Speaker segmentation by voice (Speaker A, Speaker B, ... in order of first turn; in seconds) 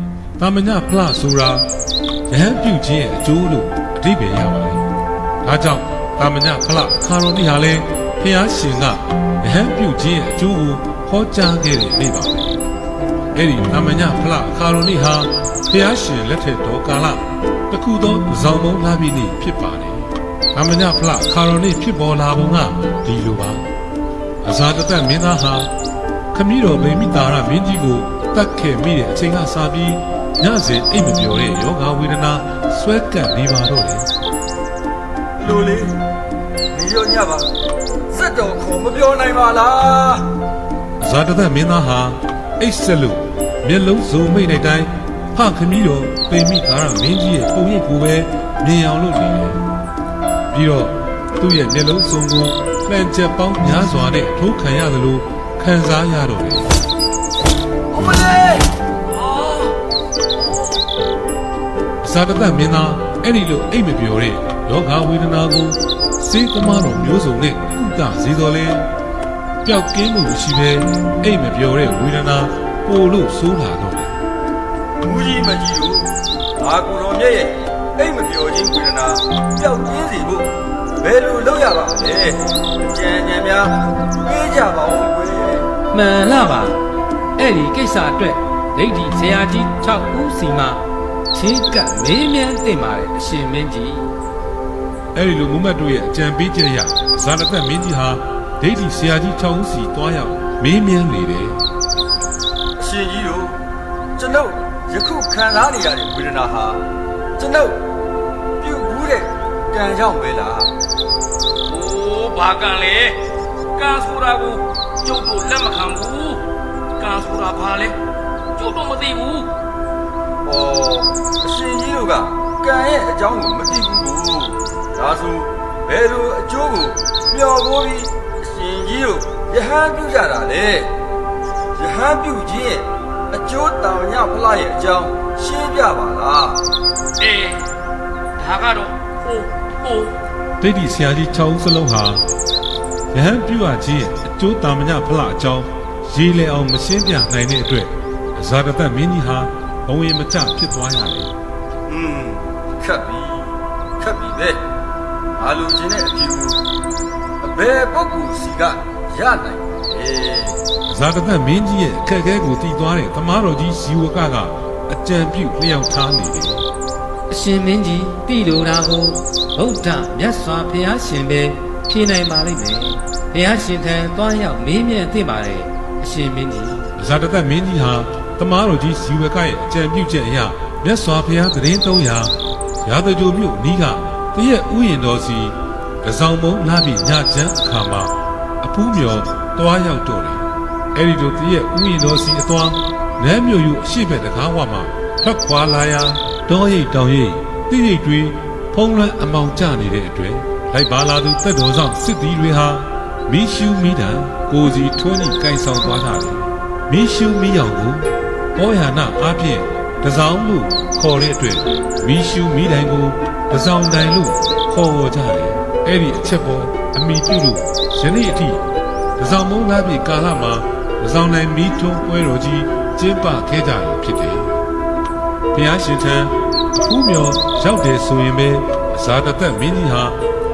Speaker A: 0.4-1.6, 2.3-4.8, 5.4-12.5, 13.3-23.7, 24.4-25.7, 26.3-34.1, 41.0-49.6, 50.5-56.7, 62.0-68.8, 69.6-74.2, 95.1-101.6, 140.6-142.3, 143.1-151.3, 160.9-166.7, 177.0-218.6, 219.2-224.5, 225.5-230.2
Speaker B: 35.4-36.0, 36.7-37.5, 38.1-40.2, 57.9-59.7, 75.0-80.5, 81.0-85.7, 102.8-103.5, 104.2-106.8, 107.4-107.8, 108.6-110.7, 120.4-130.9, 131.8-136.6, 151.9-154.6, 155.4-156.6, 157.4-160.6
Speaker C: 85.9-86.8, 87.4-90.8, 91.3-94.1, 167.3-176.9
Speaker D: 111.7-113.2, 113.8-116.4, 117.0-117.9, 118.5-119.5, 137.2-137.6, 138.4-140.1